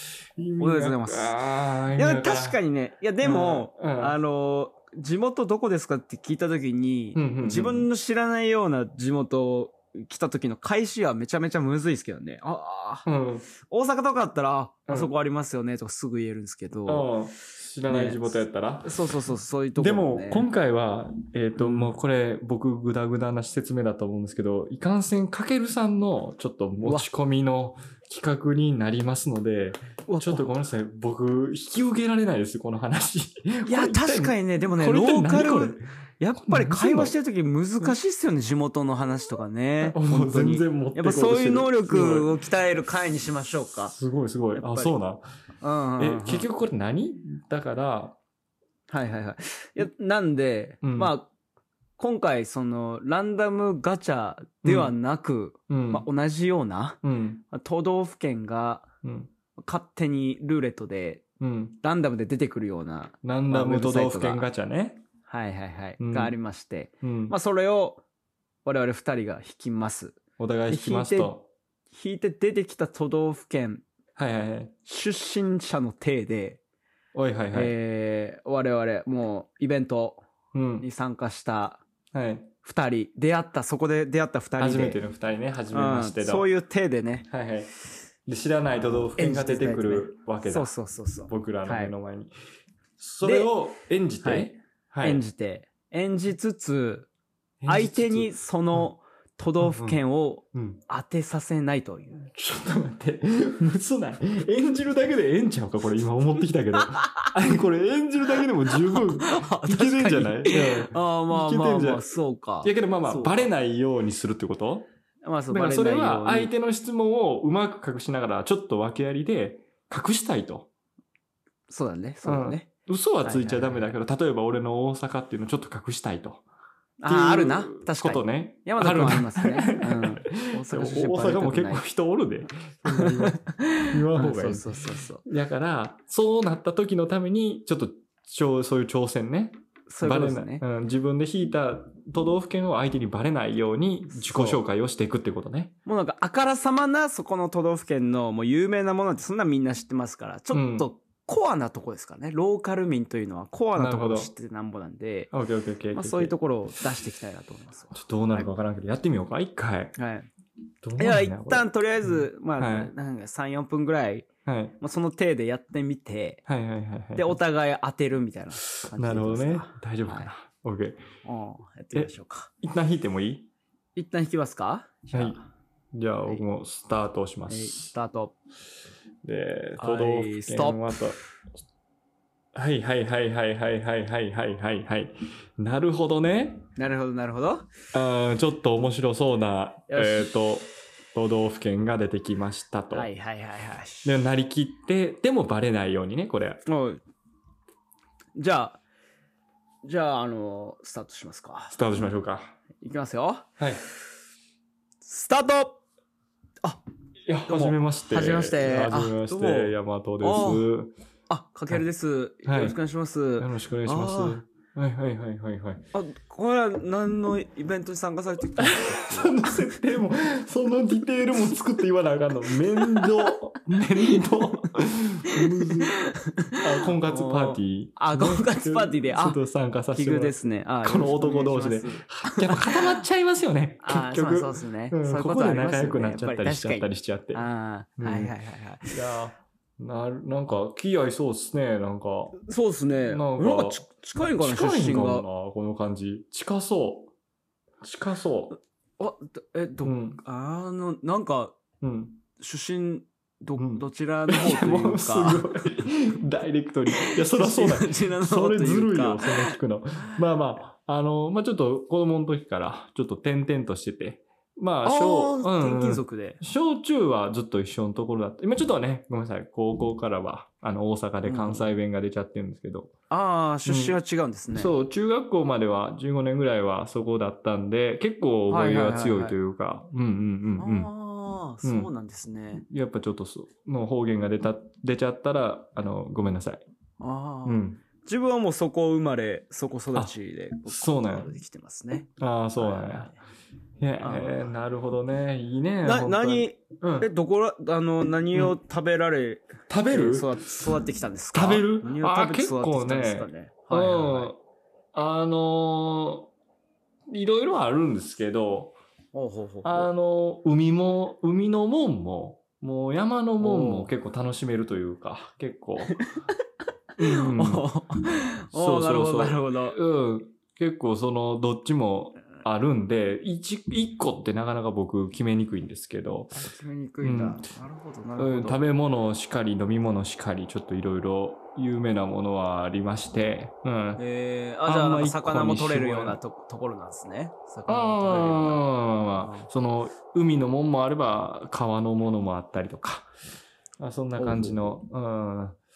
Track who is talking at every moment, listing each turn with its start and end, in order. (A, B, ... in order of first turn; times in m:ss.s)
0:00.4-0:02.6 A
0:00.6-0:01.4 B
0:02.0-0:13.1 B
0:03.2-0:04.2 A
0:07.2-0:07.9 A
0:13.1-0:13.5 A
0:13.6-0:17.1 B
0:16.9-0:19.0 A
0:17.9-0:20.5 B
0:19.8-0:35.8 A
0:21.6-0:21.9 B
0:30.1-0:30.5 B
0:33.7-0:43.9 B
0:36.4-0:37.1 A
0:39.8-0:42.4 A
0:43.8-0:45.2 A
0:44.5-0:44.9 B
0:45.6-0:46.5 B
0:46.0-0:48.2 A
0:48.9-0:51.3 B
0:50.8-0:51.1 A
0:52.0-0:57.0 B
0:54.6-0:55.0 A
0:55.7-0:56.0 A
0:57.0-0:57.4 A
0:57.5-0:58.9 B
0:59.0-0:59.3 A
0:59.6-1:01.2 B
1:01.4-1:01.8 A
1:01.8-1:04.5 B
1:03.2-1:05.0 A
1:05.3-1:08.0 B
1:06.0-1:06.4 A
1:07.0-1:07.4 A
1:08.6-1:11.3 B
1:10.4-1:11.4 A
1:11.9-1:13.8 B
1:14.2-1:14.7 A
1:14.9-1:16.6 B
1:17.1-1:17.7 A
1:17.5-1:20.2 B
1:20.5-1:20.9 A
1:20.8-1:21.8 B
1:22.1-1:22.5 A
1:22.6-1:25.0 B
1:24.6-1:26.5 A
1:25.7-1:27.3 B
1:27.3-1:27.7 A
1:28.3-1:30.7 A
1:29.1-1:31.9 B
1:31.3-1:32.3 A
1:33.0-1:35.2 A
1:33.2-1:33.5 B
1:34.2-1:37.1 B
1:37.6-1:38.8 A
1:37.7-1:42.3 B
1:39.6-1:40.0 A
1:40.5-1:40.8 A
1:42.3-1:52.1 A
1:46.8-1:47.3 B
1:48.7-1:53.5 B
1:52.6-1:54.9 A
1:55.2-1:56.5 B
1:55.5-2:00.7 A
2:01.7-2:02.7 B
2:02.2-2:06.4 A
2:03.2-2:03.8 B
2:07.0-2:11.8 B
2:07.1-2:14.7 A
2:12.9-2:15.2 B
2:15.2-2:25.7 A
2:19.9-2:20.6 B
2:24.1-2:24.6 B
2:25.9-2:35.3 B
2:30.5-2:30.9 A
2:33.8-2:34.3 A
2:35.3-2:36.4 A
2:35.9-2:38.5 B
2:37.9-2:40.0 A
2:40.0-2:40.3 B
2:40.8-2:42.9 A
2:41.0-2:44.3 B
2:44.4-2:44.8 A
2:44.8-2:46.4 B
2:46.5-2:47.4 A
2:47.2-2:50.3 B
2:48.8-2:51.0 A
2:51.2-2:52.5 B
2:51.9-2:53.5 A
2:54.0-2:55.4 B
2:55.1-2:55.4 A
2:55.9-2:57.9 A
2:57.5-2:58.3 B
2:59.2-3:01.2 A
2:59.8-3:01.1 B
3:02.6-3:06.7 A
3:06.8-3:07.7 B
3:07.9-3:13.1 A
3:09.9-3:10.3 B
3:12.9-3:14.2 B
3:14.0-3:16.6 A
3:16.7-3:17.0 B
3:18.4-3:18.8 B
3:19.8-3:22.1 B
3:21.7-3:22.6 A
3:22.8-3:23.5 B
3:23.6-3:23.8 A
3:25.0-3:25.8 B
3:27.3-3:30.9 A
3:27.5-3:30.7 B
3:31.3-3:34.4 B
3:32.4-3:32.8 A
3:33.4-3:35.8 A
3:35.9-3:39.8 B
3:38.6-3:45.9 A
3:42.7-3:43.3 B
3:44.0-3:44.7 B
3:45.3-3:49.4 B
3:46.6-3:57.5 A
3:49.9-3:53.0 B
3:53.8-3:59.0 B
3:58.0-3:58.3 A
3:58.9-4:02.4 A
4:02.4-4:05.3 B
4:03.1-4:03.8 A
4:04.4-4:07.1 A
4:07.8-4:08.6 A
4:09.0-4:11.6 B
4:09.8-4:10.2 A
4:11.8-4:12.2 A
4:12.4-4:15.5 B
4:13.6-4:32.9 A
4:16.9-4:19.6 B
4:24.8-4:26.4 B
4:31.2-4:31.7 B
4:33.1-4:34.7 B
4:33.6-4:34.0 A
4:34.5-4:40.9 A
4:38.5-4:39.4 B
4:40.6-4:42.6 B
4:41.6-4:41.9 A
4:42.7-4:46.6 A
4:47.0-4:53.2 B
4:47.4-4:47.8 A
4:50.7-4:51.3 A
4:52.2-4:53.1 A
4:53.8-4:57.1 A
4:54.0-4:54.4 B
4:55.8-5:04.3 B
4:59.7-5:00.3 A
5:01.3-5:04.4 A
5:04.9-5:06.3 A
5:07.1-5:08.8 A
5:09.1-5:09.9 B
5:09.6-5:16.0 A
5:13.4-5:13.9 B
5:17.0-5:17.7 A
5:17.0-5:19.8 B
5:18.5-5:26.4 A
5:26.3-5:28.6 B
5:27.0-5:27.4 A
5:28.2-5:34.0 A
5:34.0-5:38.6 B
5:34.7-5:36.2 A
5:37.7-5:43.1 A
5:39.2-5:39.5 B
5:43.8-5:45.6 A
5:44.2-5:44.8 B